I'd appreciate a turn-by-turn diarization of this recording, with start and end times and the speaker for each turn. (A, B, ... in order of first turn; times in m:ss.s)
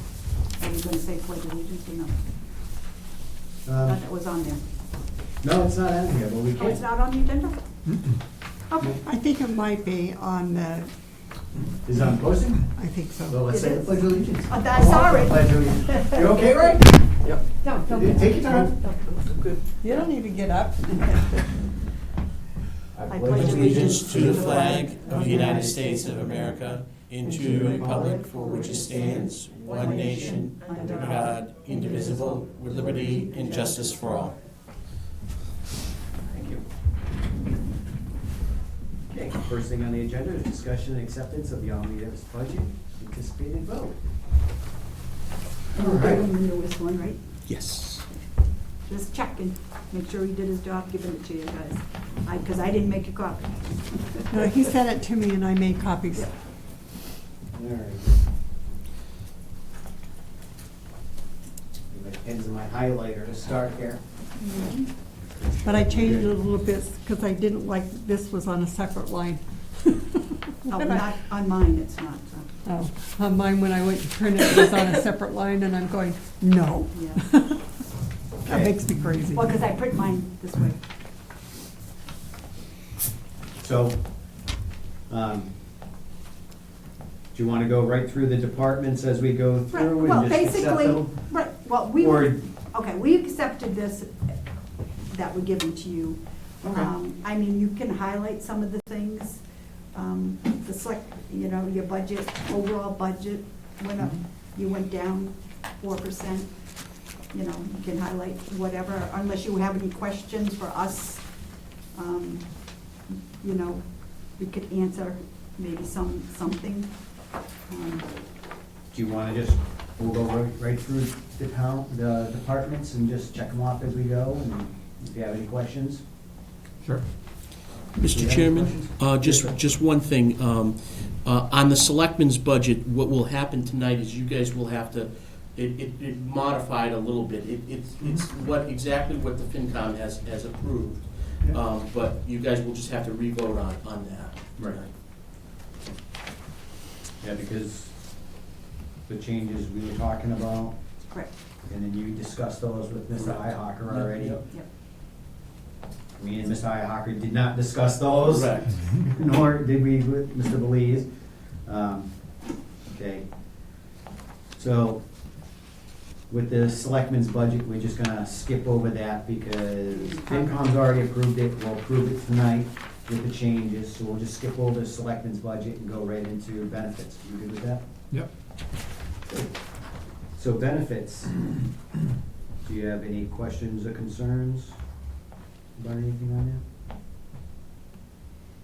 0:00.6-0:02.2 A
0:03.6-0:04.0 B
0:03.8-0:04.6 A
0:05.4-0:06.8 B
0:06.6-0:07.6 A
0:08.7-0:09.0 A
0:08.8-0:09.0 B
0:09.0-0:10.9 C
0:11.8-0:12.7 B
0:12.8-0:13.4 C
0:13.2-0:17.2 B
0:13.5-0:14.0 A
0:14.5-0:17.0 A
0:17.5-0:19.2 A
0:17.9-0:18.9 B
0:19.8-0:21.2 C
0:22.9-0:26.4 B
0:23.1-0:25.3 A
0:23.3-0:34.4 D
0:25.2-0:25.5 C
0:27.3-0:27.5 C
0:27.4-0:28.2 B
0:28.0-0:31.4 A
0:33.2-0:33.9 A
0:36.3-0:36.6 B
0:39.1-0:44.0 B
0:45.7-0:47.2 A
0:45.7-0:46.3 B
0:47.5-0:48.0 D
0:48.9-0:54.3 A
0:54.3-0:56.3 C
0:57.5-0:58.2 B
1:01.9-1:04.0 B
1:04.4-1:04.9 A
1:05.3-1:06.4 B
1:05.6-1:11.1 C
1:10.6-1:12.5 A
1:12.6-1:17.6 C
1:16.9-1:17.2 A
1:18.4-1:18.9 B
1:18.4-1:19.6 C
1:19.3-1:20.8 A
1:23.6-1:24.3 B
1:25.1-1:25.5 B
1:27.3-1:31.2 B
1:29.7-1:34.3 A
1:32.0-1:32.4 B
1:35.1-1:39.4 A
1:36.6-1:36.9 B
1:39.9-1:46.5 A
1:47.3-1:57.0 A
1:57.7-1:58.1 A
1:58.9-2:06.0 B
2:08.0-2:24.9 D
2:08.1-2:09.6 B
2:27.2-2:28.0 B
2:29.1-2:30.8 B
2:31.6-2:34.4 B
2:33.2-2:34.4 D
2:36.2-2:42.1 B
2:38.2-2:38.8 D
2:42.9-2:43.7 B
2:44.6-2:45.0 B
2:46.3-2:57.8 B
2:50.0-2:50.3 A
3:00.3-3:01.4 B
3:02.6-3:04.8 B
3:05.8-3:06.6 B